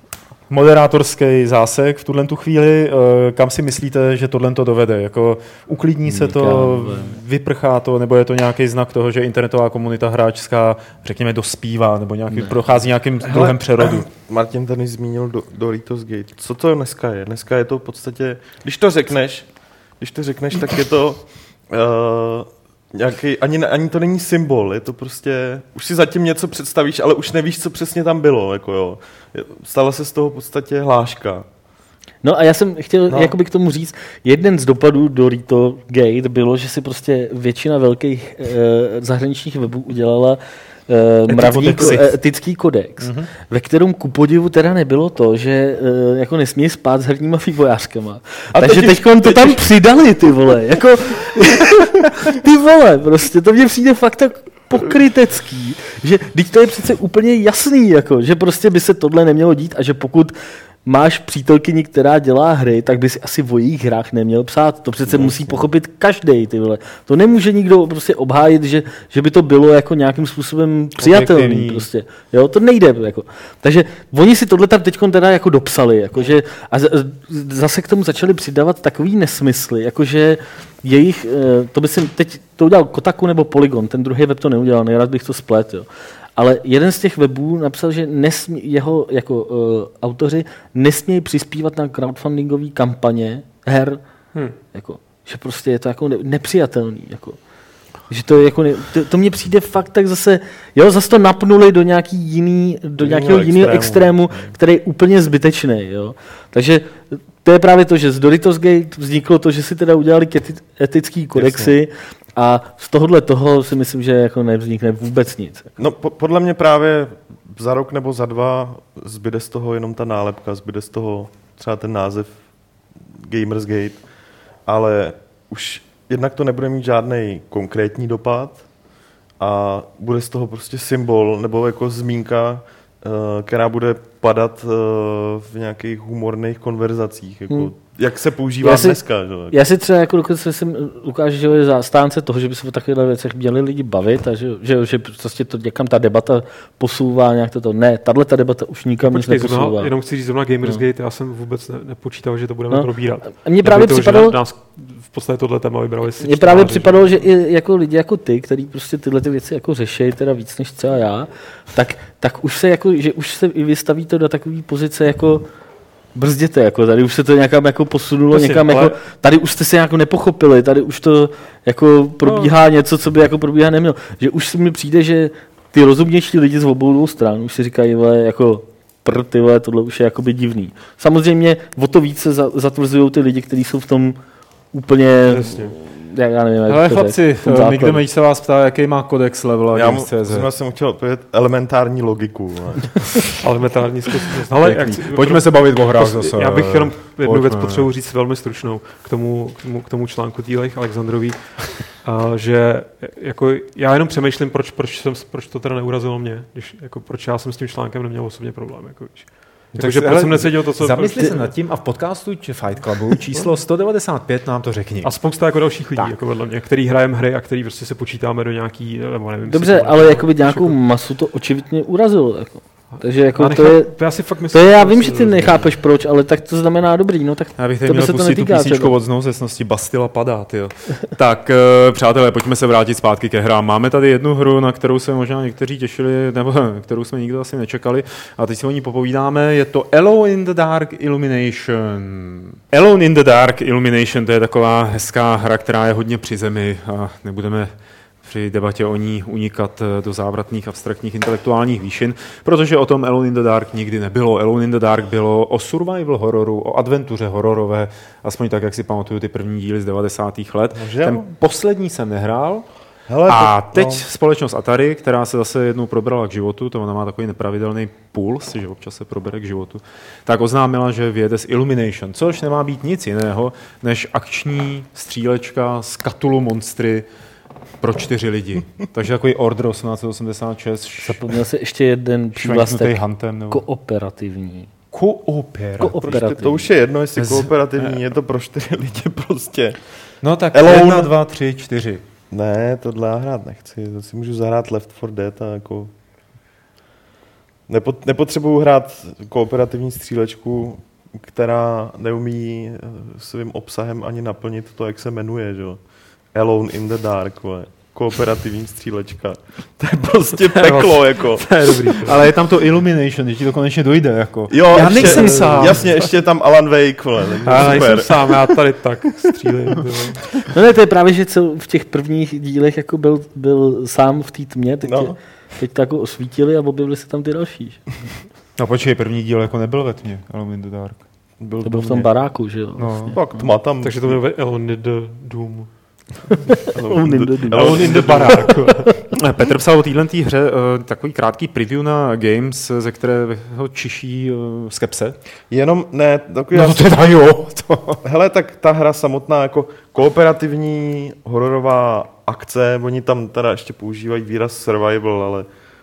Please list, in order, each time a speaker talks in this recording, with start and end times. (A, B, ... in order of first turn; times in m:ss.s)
0:00.5-0:14.1 A
0:06.0-0:07.2 B
0:12.3-0:12.6 B
0:13.2-0:31.4 C
0:32.2-1:34.0 B
0:33.1-0:33.3 C
0:41.3-0:42.2 A
0:43.0-0:43.3 A
0:48.5-0:49.6 C
1:05.0-1:05.6 C
1:11.0-1:11.9 A
1:34.6-1:37.4 B
1:38.0-1:55.8 B
1:43.0-1:44.5 C
1:51.4-1:51.7 C
1:55.8-2:02.4 C
2:03.2-2:04.0 C
2:04.6-2:08.8 C
2:09.4-2:19.6 C
2:18.6-2:30.0 B
2:29.0-2:37.3 D
2:32.7-2:34.4 B
2:36.1-2:45.5 B
2:46.1-3:04.2 B
2:48.3-2:49.0 D
2:52.2-2:52.6 D
3:04.7-3:08.0 B
3:05.3-3:05.8 D
3:06.7-3:10.5 A
3:09.7-3:13.3 C
3:13.4-3:31.5 D
3:14.5-3:17.9 A
3:29.7-3:36.1 A
3:35.0-3:40.8 D
3:39.5-3:48.9 B
3:42.9-3:45.7 D
3:47.6-4:07.7 A
4:08.2-4:37.1 A
4:20.7-4:21.3 C
4:23.1-4:24.0 C
4:37.8-4:41.4 A
4:41.0-4:44.7 B
4:42.4-4:43.6 A
4:44.9-4:46.2 A
4:45.8-4:46.7 B
4:45.9-4:51.1 C
4:47.2-4:48.0 A
4:50.2-4:52.0 A
4:52.3-4:55.9 C
4:57.7-5:12.0 C
5:10.5-5:12.2 D
5:12.0-5:15.9 A
5:14.5-5:18.7 C
5:14.9-5:15.7 D
5:17.4-5:20.4 D
5:17.5-5:17.9 A
5:20.5-5:28.0 B
5:24.8-5:25.2 C
5:28.6-5:31.0 A
5:31.4-5:32.3 C
5:31.6-5:33.4 B
5:32.8-5:33.2 A
5:33.0-5:34.2 C
5:33.8-5:36.3 D
5:36.6-5:38.0 B
5:36.7-5:38.5 C
5:37.5-5:38.9 D
5:37.6-5:45.2 A
5:45.5-5:46.9 C
5:46.5-5:48.0 A
5:48.0-5:55.5 C